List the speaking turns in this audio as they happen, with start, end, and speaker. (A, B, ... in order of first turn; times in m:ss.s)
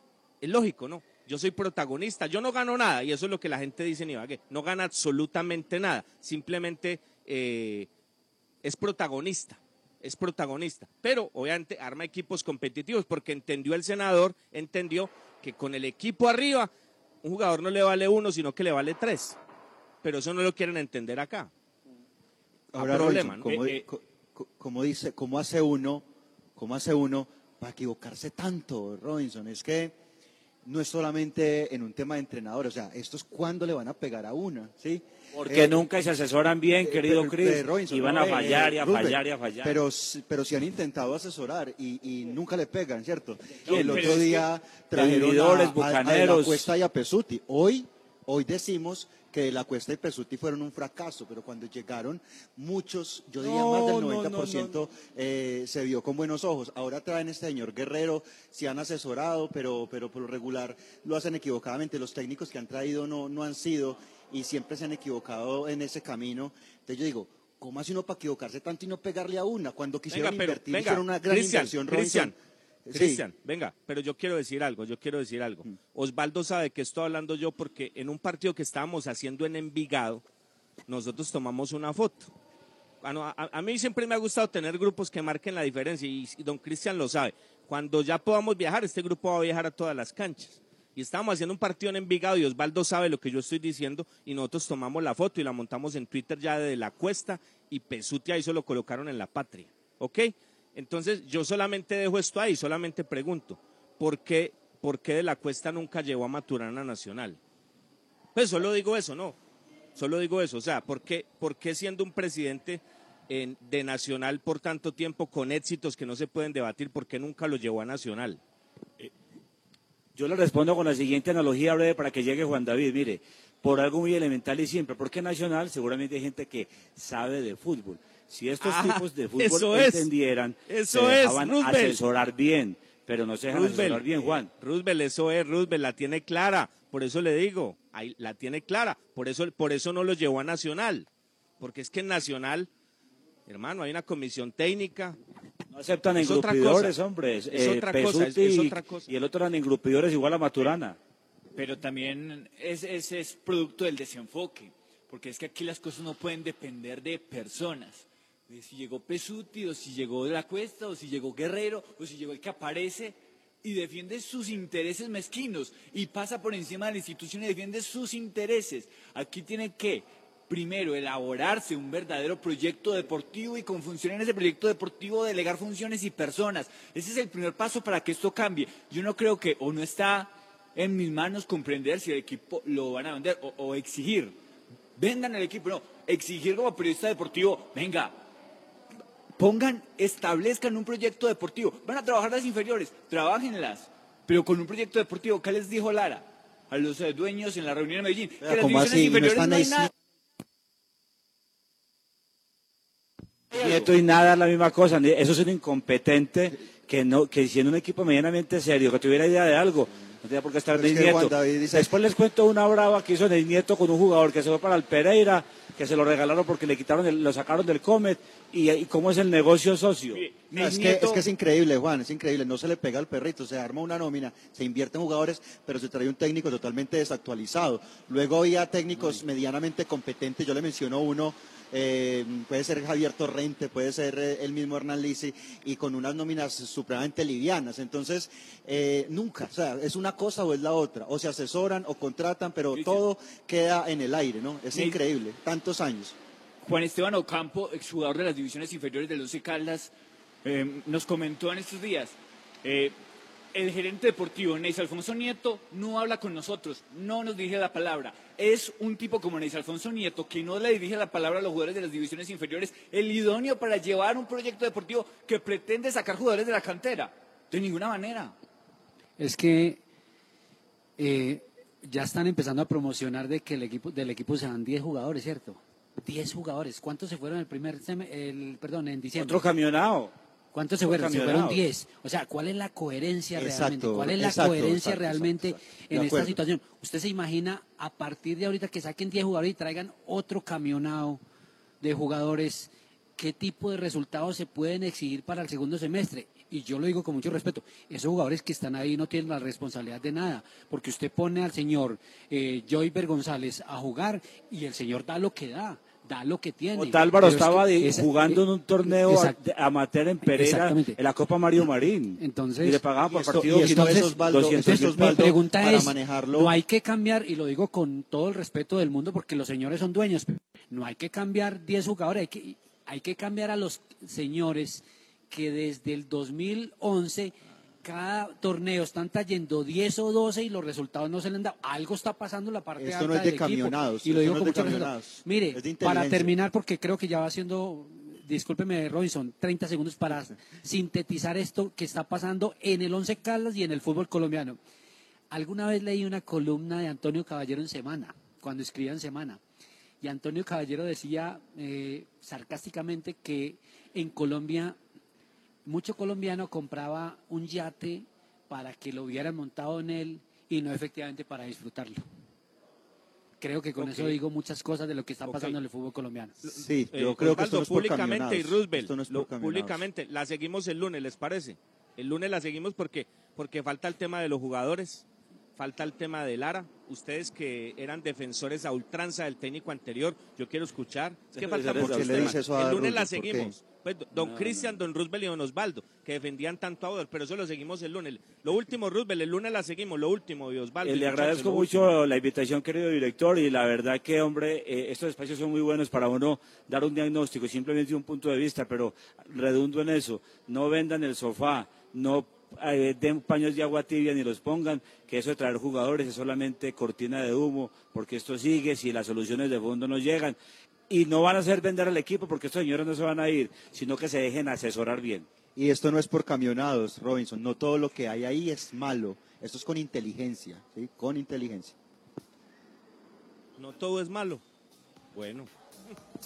0:00.4-0:07.9 A
0:08.6-0:16.7 A
0:17.2-0:19.4 A
0:20.0-0:21.5 A
0:22.7-0:26.0 B
0:22.8-0:23.6 A
0:23.4-0:23.8 C
0:26.6-0:30.0 B
0:30.6-0:35.8 B
0:35.3-0:39.8 D
0:36.8-1:12.3 B
0:43.6-0:44.5 C
0:43.7-0:44.2 D
0:44.9-0:46.7 D
0:53.4-0:54.8 D
1:10.1-1:12.3 A
1:12.9-1:13.2 B
1:12.9-1:20.2 A
1:20.9-1:22.3 A
1:23.0-1:47.4 A
1:48.4-1:49.4 A
1:50.0-1:58.4 A
2:00.2-2:14.5 D
2:08.6-2:10.1 A
2:10.7-2:12.0 A
2:13.5-2:21.1 A
2:21.6-2:22.7 A
2:23.5-2:25.2 A
2:25.7-2:31.0 D
2:26.2-2:27.0 A
2:27.5-2:29.1 A
2:31.6-3:04.4 C
3:05.0-3:08.2 C
3:09.4-3:19.9 C
3:18.4-3:19.9 B
3:23.5-3:40.2 D
3:23.5-3:23.9 C
3:30.7-3:31.9 B
3:40.1-3:41.3 C
3:40.5-4:06.2 B
4:02.7-4:03.0 C
4:04.7-4:05.0 C
4:06.6-4:09.9 C
4:10.4-4:13.0 C
4:13.5-4:28.3 C
4:29.2-4:29.8 E
4:31.0-4:39.4 E
4:39.2-4:40.1 D
4:40.5-4:51.2 E
4:40.8-4:41.6 D
4:43.4-4:46.4 B
4:51.8-5:09.4 E
5:06.8-5:15.3 D
5:10.2-5:11.0 E
5:12.2-5:12.8 E
5:13.1-5:16.5 B
5:13.3-5:44.6 E
5:32.8-5:36.3 B
5:45.3-5:49.4 E
5:50.0-5:54.8 E
5:55.6-6:02.0 E
6:03.4-6:06.4 E
6:03.8-6:04.2 A
6:05.3-6:05.6 A
6:06.4-6:15.0 A
6:06.5-6:09.8 B
6:15.6-6:31.8 A
6:21.3-6:22.4 D
6:21.7-6:23.5 B
6:24.1-6:24.8 D
6:30.8-6:50.4 D
6:50.9-6:55.3 D
6:55.6-7:01.8 B
7:03.6-7:04.4 A
7:05.2-7:05.5 A